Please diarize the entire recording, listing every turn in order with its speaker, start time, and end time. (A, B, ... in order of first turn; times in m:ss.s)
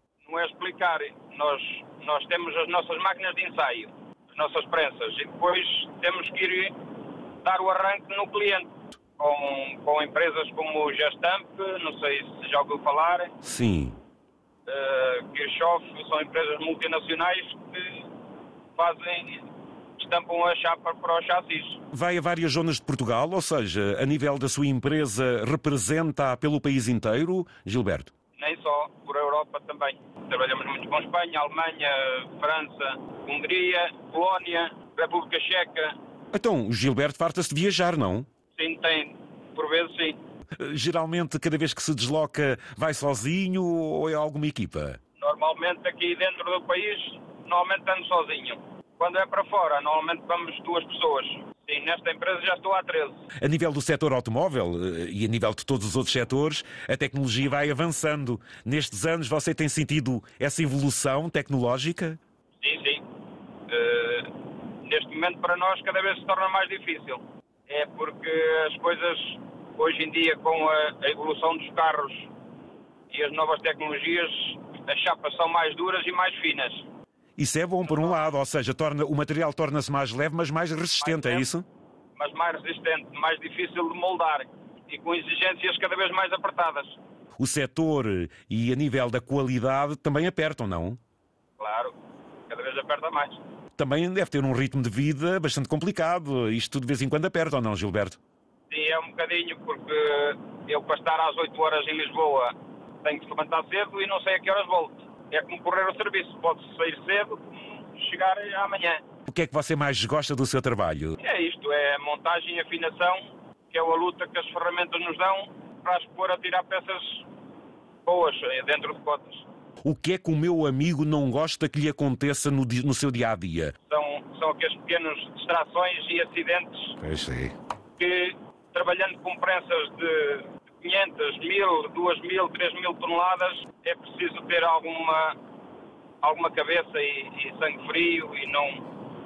0:00.2-0:06.7 A
0:07.4-0:13.3 A
0:13.4-0:14.0 B
0:14.6-0:18.1 A
0:18.7-0:19.4 A
0:20.0-0:21.8 A
0:21.9-0:28.1 B
0:28.4-0:35.9 A
0:36.3-0:38.3 B
0:38.5-0:40.2 A
0:40.6-0:45.0 B
0:45.2-0:53.2 A
0:53.4-1:02.2 B
1:02.6-1:03.0 A
1:03.7-1:04.3 A
1:04.8-1:12.3 A
1:13.1-1:16.8 A
1:17.4-1:21.6 B
1:17.8-1:18.2 A
1:21.0-1:21.5 A
1:22.2-1:27.0 A
1:27.4-1:31.0 B
1:31.6-1:31.9 A
1:32.5-1:33.4 A
1:33.8-1:38.2 B
1:38.7-1:49.0 A
1:49.3-1:51.2 B
1:51.2-1:57.3 A
1:58.0-1:59.4 A
1:59.8-2:03.7 B
2:03.9-2:07.0 A
2:07.0-2:07.5 B
2:08.0-2:15.4 A
2:16.2-2:18.8 A